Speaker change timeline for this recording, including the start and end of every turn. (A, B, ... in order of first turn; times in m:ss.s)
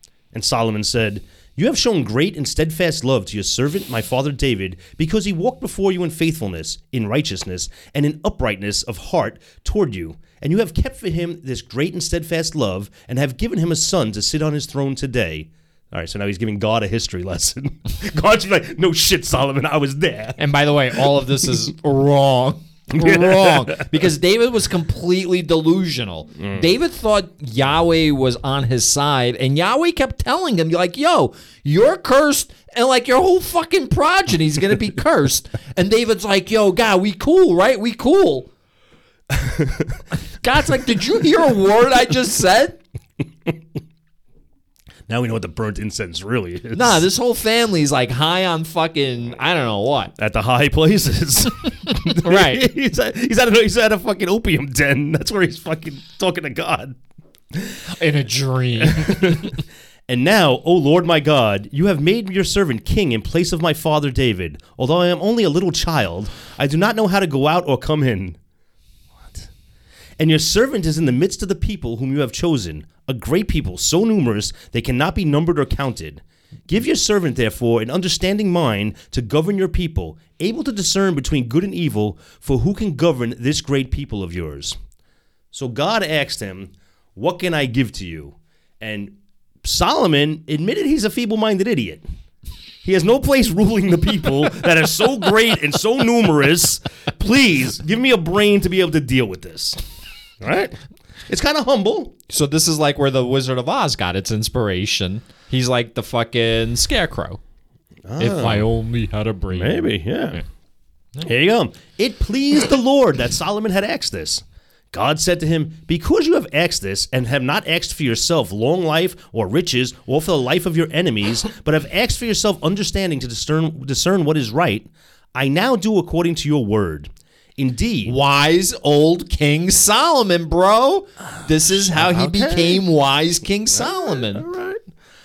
0:00.3-0:20.4 A
0:20.4-0:38.5 B
0:22.9-0:23.8 A
0:26.4-0:26.7 A
0:39.3-0:40.0 A
0:40.4-0:42.8 B
0:45.1-0:47.1 A
0:46.7-0:50.1 B
0:50.2-0:57.0 A
0:51.9-0:52.6 B
0:57.5-0:57.8 A
0:57.9-0:59.6 B
0:58.8-1:08.4 A
1:10.2-1:24.8 A
1:25.5-1:32.0 A
1:32.8-1:39.8 A
1:40.4-1:42.1 A
1:42.3-1:47.4 B
1:48.0-1:48.7 A
1:48.2-1:50.4 B
1:49.5-1:50.4 A
1:51.2-2:08.1 A
2:08.0-2:14.4 B
2:11.7-2:12.8 A
2:13.7-2:14.8 A